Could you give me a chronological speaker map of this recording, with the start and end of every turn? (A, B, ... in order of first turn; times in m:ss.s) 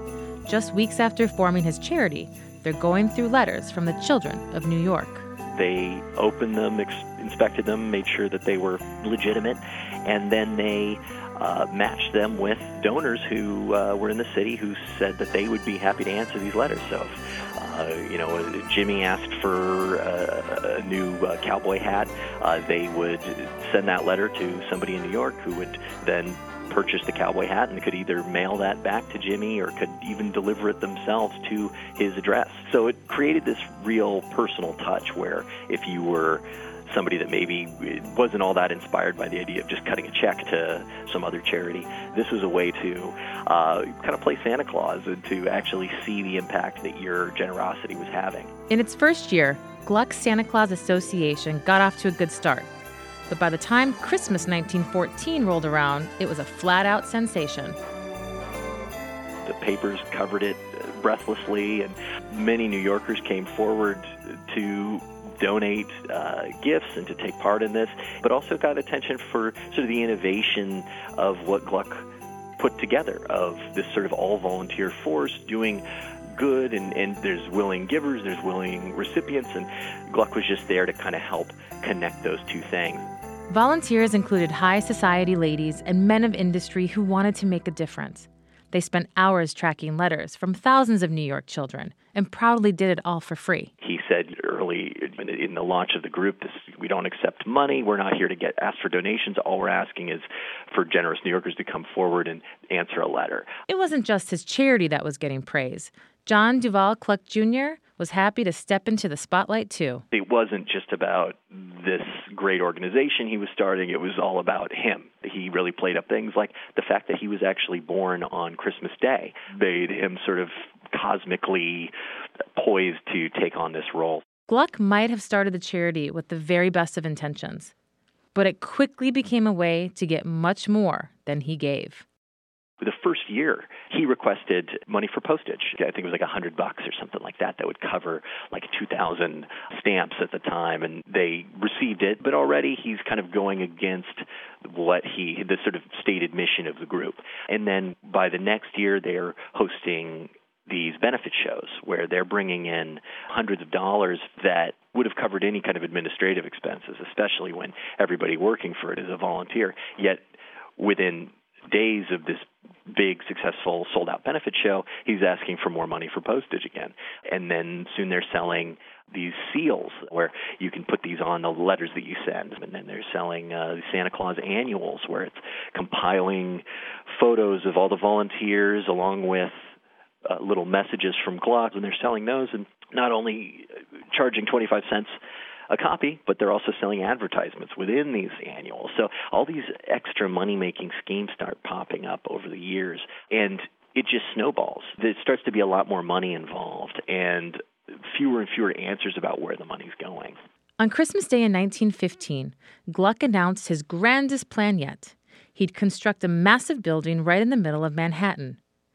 0:00.4-0:05.2 A
0:05.5-0:48.5 B
0:48.7-0:52.7 A
0:53.3-0:57.8 A
0:59.4-1:12.0 B
1:12.6-1:15.8 B
1:16.4-1:23.1 B
1:23.5-1:33.7 A
1:33.8-1:43.6 B
1:43.7-1:50.0 A
1:50.1-2:01.9 B
2:02.6-2:04.2 B
2:04.5-2:07.7 A
2:08.3-2:12.0 A
2:12.8-2:40.2 B
2:40.8-2:59.5 B
3:00.2-3:05.2 B
3:05.7-3:20.4 B
3:20.8-3:28.6 A